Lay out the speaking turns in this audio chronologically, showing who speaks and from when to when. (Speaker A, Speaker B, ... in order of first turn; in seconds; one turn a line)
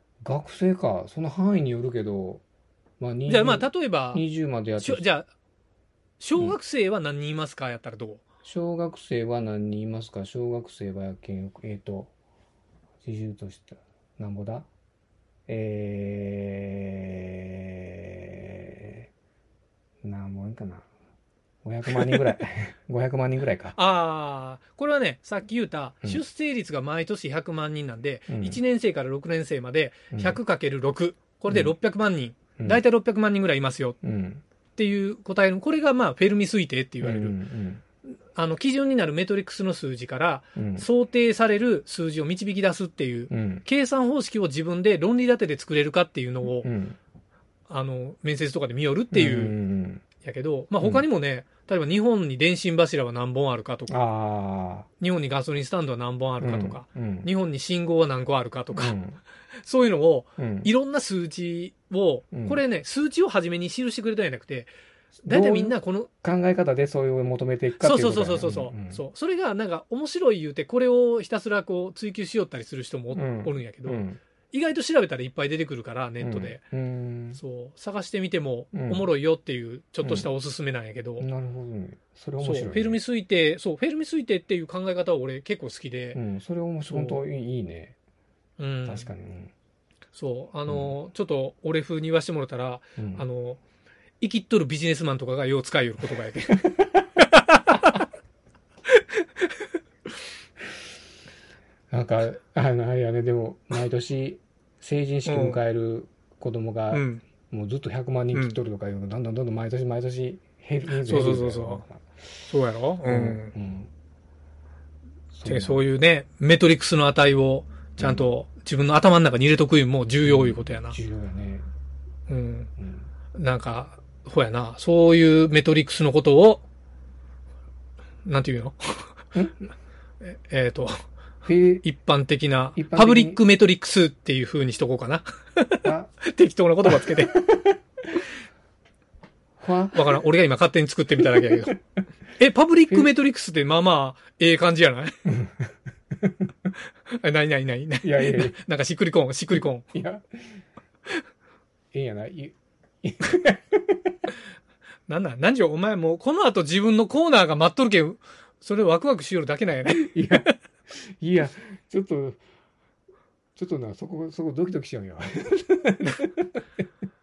Speaker A: 0.2-2.4
Speaker A: 3.0-5.1
Speaker B: 3.3-4.2
Speaker B: 4.8-5.3
Speaker B: 6.2-8.2
Speaker A: 8.4-12.1
Speaker A: 13.0-14.7
Speaker A: 15.5-19.1
Speaker A: 20.0-20.9
Speaker A: 21.6-23.8
Speaker B: 21.9-22.4
Speaker B: 23.7-34.0
Speaker A: 28.3-28.6
Speaker A: 30.1-30.4
Speaker A: 31.5-31.8
Speaker A: 32.6-32.8
Speaker A: 34.0-34.4
Speaker B: 34.8-37.4
Speaker A: 37.0-37.8
Speaker B: 38.3-46.7
Speaker A: 40.6-40.9
Speaker A: 43.3-43.6
Speaker A: 46.5-47.0
Speaker B: 47.7-49.6
Speaker A: 49.1-50.0
Speaker B: 50.2-54.0
Speaker A: 50.8-51.1
Speaker A: 53.9-54.9
Speaker B: 55.0-59.0
Speaker A: 56.4-57.3
Speaker A: 58.7-59.2
Speaker B: 59.6-64.7
Speaker A: 60.4-60.7
Speaker A: 62.3-62.6
Speaker B: 65.2-66.1
Speaker A: 65.2-69.0
Speaker B: 67.8-76.6
Speaker A: 73.1-74.2
Speaker A: 76.2-77.4
Speaker B: 77.3-81.3
Speaker A: 78.7-79.1
Speaker A: 80.0-80.3
Speaker A: 81.2-83.0
Speaker B: 82.4-86.2
Speaker A: 86.1-88.0
Speaker B: 86.9-87.2
Speaker B: 88.6-89.1
Speaker A: 88.8-89.5
Speaker B: 90.1-93.6
Speaker A: 90.7-91.0
Speaker A: 93.0-93.3
Speaker B: 94.2-98.0
Speaker A: 101.9-112.1
Speaker B: 105.2-105.6
Speaker B: 106.9-107.2
Speaker B: 108.3-108.6
Speaker B: 110.9-111.8
Speaker B: 112.5-113.5
Speaker A: 113.0-113.9
Speaker A: 115.3-115.8
Speaker B: 115.5-121.0
Speaker A: 118.0-118.3
Speaker A: 120.2-121.7
Speaker B: 122.3-122.7
Speaker A: 122.8-123.1
Speaker B: 123.3-126.7
Speaker B: 128.2-129.1
Speaker A: 129.3-129.7
Speaker B: 130.2-130.9
Speaker A: 131.4-131.8
Speaker B: 131.8-137.4
Speaker A: 132.8-133.4
Speaker A: 135.8-136.1
Speaker A: 136.9-138.1
Speaker A: 139.6-140.3
Speaker B: 139.9-141.8
Speaker A: 141.2-141.8
Speaker B: 142.4-145.2
Speaker A: 145.3-146.5
Speaker B: 147.1-149.9
Speaker A: 148.0-148.6
Speaker A: 149.5-150.6
Speaker A: 151.9-154.2
Speaker B: 155.1-160.5
Speaker A: 159.8-162.4
Speaker A: 163.6-166.6